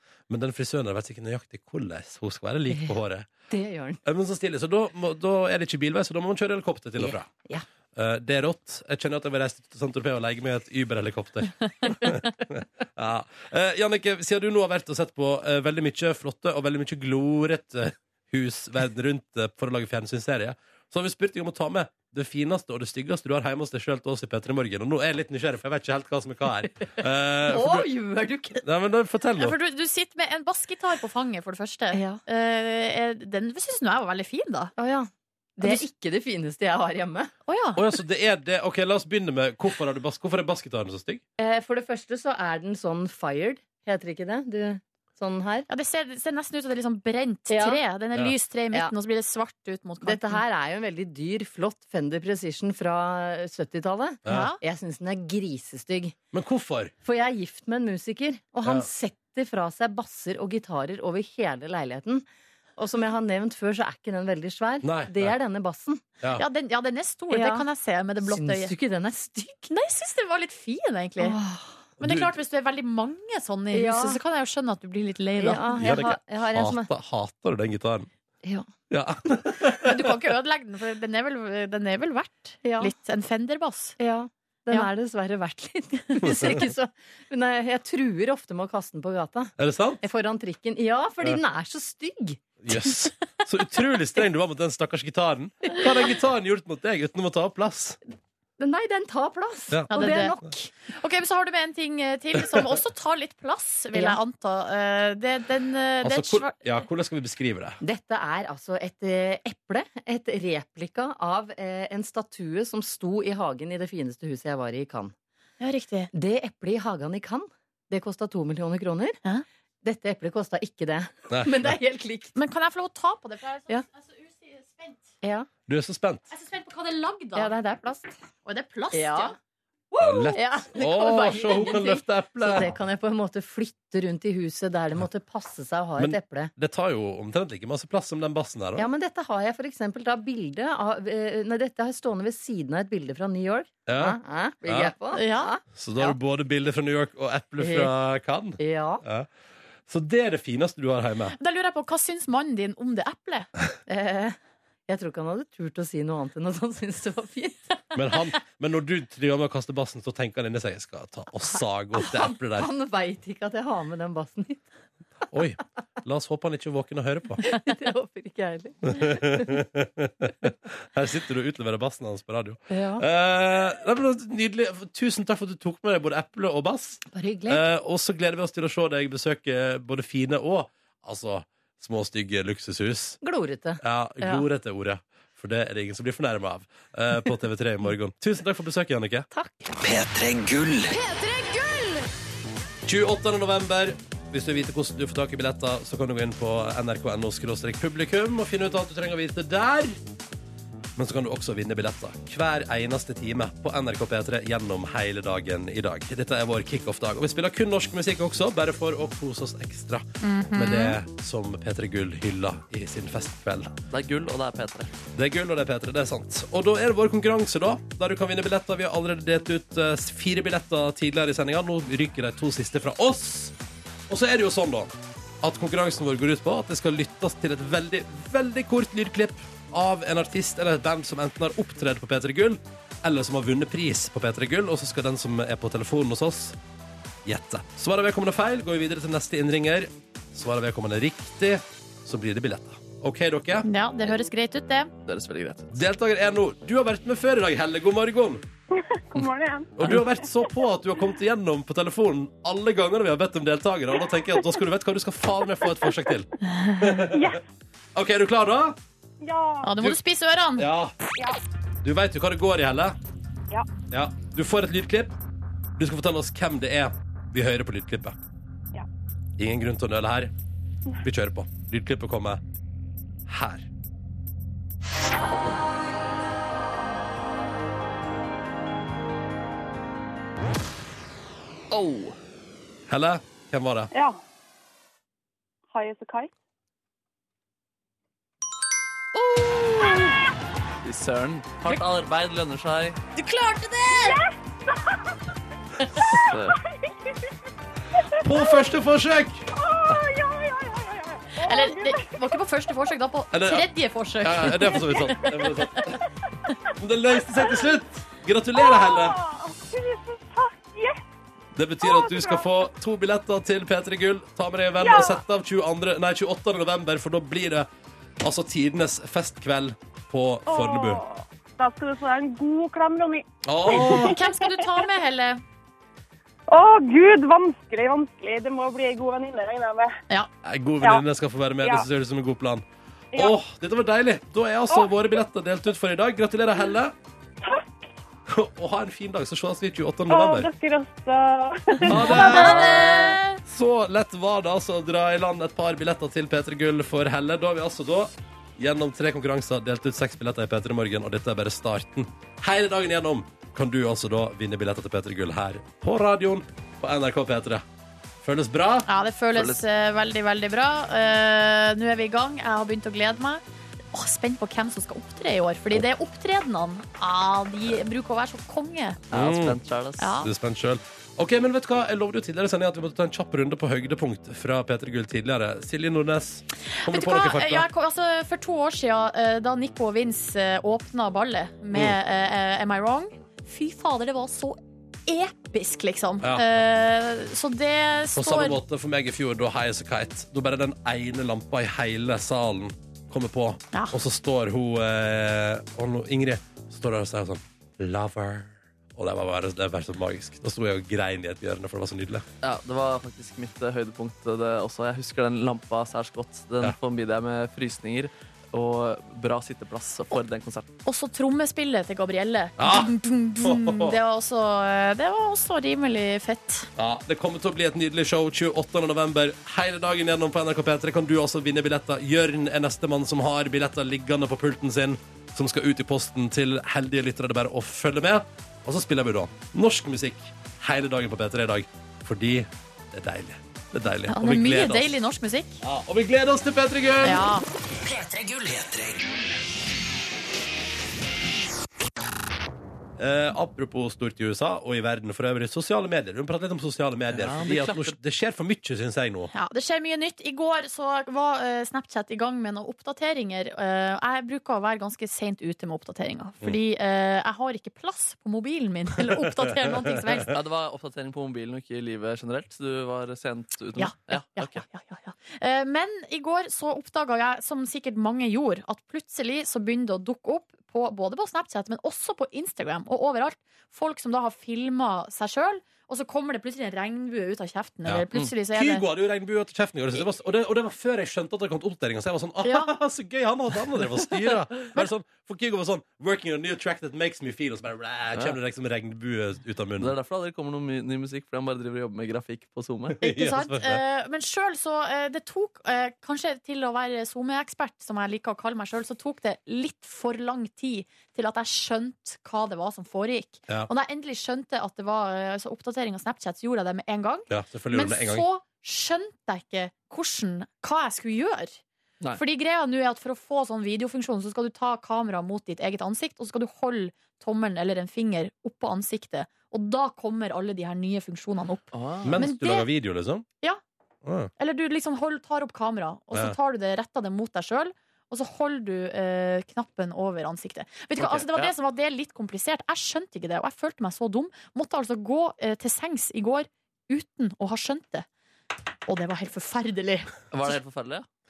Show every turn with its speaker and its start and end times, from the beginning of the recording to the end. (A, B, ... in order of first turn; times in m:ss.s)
0:00.3-0:03.3 A
0:02.7-0:02.9 B
0:03.5-0:04.0 B
0:04.0-0:07.3 A
0:07.0-0:07.6 B
0:07.9-0:27.8 A
0:27.4-0:28.6 B
0:28.6-0:29.6 A
0:29.4-0:34.7 C
0:31.9-0:32.2 B
0:34.8-0:37.3 B
0:37.4-0:37.8 C
0:37.8-0:41.2 A
0:41.4-0:45.7 B
0:45.7-0:50.4 C
0:47.5-0:47.8 B
0:50.0-0:56.2 B
0:54.3-0:54.6 C
0:56.3-0:56.9 A
0:57.0-1:02.2 B
1:02.8-1:06.0 B
1:04.8-1:05.3 A
1:06.4-1:08.7 C
1:07.3-1:07.6 B
1:08.2-1:09.7 B
1:09.7-1:11.4 C
1:11.2-1:11.9 B
1:12.0-1:12.3 A
1:12.0-1:15.8 C
1:13.7-1:14.2 B
1:15.4-1:16.9 B
1:15.8-1:18.1 A
1:18.4-1:18.7 B
1:18.9-1:20.0 A
1:19.8-1:24.0 C
1:22.6-1:22.9 B
1:24.0-1:32.4 B
1:26.3-1:26.5 A
1:29.6-1:30.0 A
1:32.6-1:38.0 A
1:38.6-1:40.7 B
1:39.7-1:40.4 A
1:39.9-1:40.4 C
1:40.9-1:46.8 C
1:43.9-1:44.2 B
1:46.0-1:47.8 A
1:47.8-1:55.1 B
1:55.6-1:56.1 C
1:56.1-1:59.2 B
1:59.8-2:02.4 B
2:01.3-2:01.7 A
2:02.3-2:05.1 C
2:05.2-2:05.5 B
2:05.7-2:06.3 A
2:06.3-2:07.5 C
2:07.4-2:08.1 B
2:08.4-2:09.3 C
2:08.9-2:09.3 B
2:09.9-2:12.0 C
2:10.0-2:12.7 A
2:10.3-2:16.5 B
2:16.0-2:18.9 A
2:18.8-2:26.2 B
2:23.8-2:24.9 A
2:25.1-2:25.5 C
2:25.7-2:29.3 A
2:27.6-2:27.9 B
2:28.6-2:29.0 B
2:29.9-2:31.4 A
2:31.4-2:33.5 C
2:33.9-2:34.4 B
2:34.9-2:38.2 B
2:37.9-2:42.7 A
2:42.0-2:44.6 B
2:45.3-2:47.4 A
2:47.4-2:49.6 B
2:48.9-3:03.2 A
2:52.7-2:53.0 B
2:57.1-2:57.6 B
3:03.2-3:04.4 B
3:03.8-3:09.3 A
3:09.3-3:09.7 B
3:09.8-3:10.9 D
3:11.0-3:12.0 B
3:12.8-3:20.0 A
3:21.0-3:33.7 A
3:30.2-3:31.0 C
3:33.9-3:34.9 E
3:35.2-3:43.5 A
3:44.1-3:56.6 A
3:57.2-4:03.7 A
4:03.6-4:04.9 C
4:05.0-4:05.8 E
4:05.7-4:08.4 A
4:08.8-4:10.0 F
4:09.8-4:16.3 A
4:16.5-4:17.0 C
4:16.8-4:17.4 A
4:17.1-4:17.4 F
4:17.9-4:18.8 A
4:19.2-4:19.7 F
4:19.6-4:20.7 C
4:20.6-4:20.9 A
4:21.8-4:23.0 A
4:23.9-4:25.1 A
4:25.8-4:28.1 A
4:29.4-4:30.3 A
4:31.0-4:32.4 A
4:33.3-4:33.7 A
4:41.7-4:42.1 E
4:42.9-4:43.9 A
4:43.9-4:44.2 F
4:45.7-4:46.3 F
4:50.8-4:53.0 E
4:53.2-4:54.2 C
4:53.9-4:55.0 F
4:56.2-4:56.6 E
4:58.1-4:58.6 F
4:58.2-4:59.4 A
4:59.5-5:02.3 F
5:01.4-5:05.6 C
5:03.3-5:03.7 A
5:04.2-5:06.0 A
5:06.8-5:09.2 A
5:08.6-5:11.0 F
5:11.6-5:17.7 A
5:11.8-5:12.5 F
5:14.8-5:15.2 F
5:18.2-5:21.0 A
5:20.5-5:24.6 F
5:23.4-5:24.1 A
5:23.7-5:25.4 C
5:26.5-5:29.9 F
5:30.4-5:36.9 A
5:37.4-5:37.8 F
5:38.3-5:40.5 A
5:40.1-5:42.4 F
5:41.8-5:57.6 A
5:41.9-5:43.4 C
5:42.3-5:42.8 E
5:58.2-5:58.9 A
5:58.9-6:09.0 C
5:59.4-5:59.6 E
6:09.1-6:10.2 E
6:09.1-6:09.6 A
6:10.0-6:10.3 C
6:10.2-6:17.7 A
6:16.8-6:28.6 C
6:26.2-6:26.4 A
6:28.1-6:42.2 A
6:42.4-6:50.7 E
6:50.8-6:56.7 C
6:52.6-6:54.0 A
6:56.8-7:14.9 A
7:14.1-7:15.6 C
7:15.6-7:17.3 A
7:17.0-7:17.4 C
7:17.8-7:19.2 D
7:23.0-7:29.3 A
7:27.1-7:27.9 E
7:29.3-7:40.3 C
7:39.4-7:40.2 A
7:40.3-7:44.6 E
7:43.8-7:58.8 C
7:57.8-8:09.9 A
8:02.4-8:02.7 C
8:09.8-8:13.0 E
8:12.9-8:13.8 A
8:13.0-8:31.6 C
8:27.3-8:28.3 A
8:32.1-8:42.7 C
8:41.7-8:42.2 E
8:42.0-8:43.2 A
8:44.0-8:44.3 A
8:44.4-8:58.0 C
8:51.0-8:51.5 E
8:58.9-9:00.1 C
9:00.3-9:01.1 E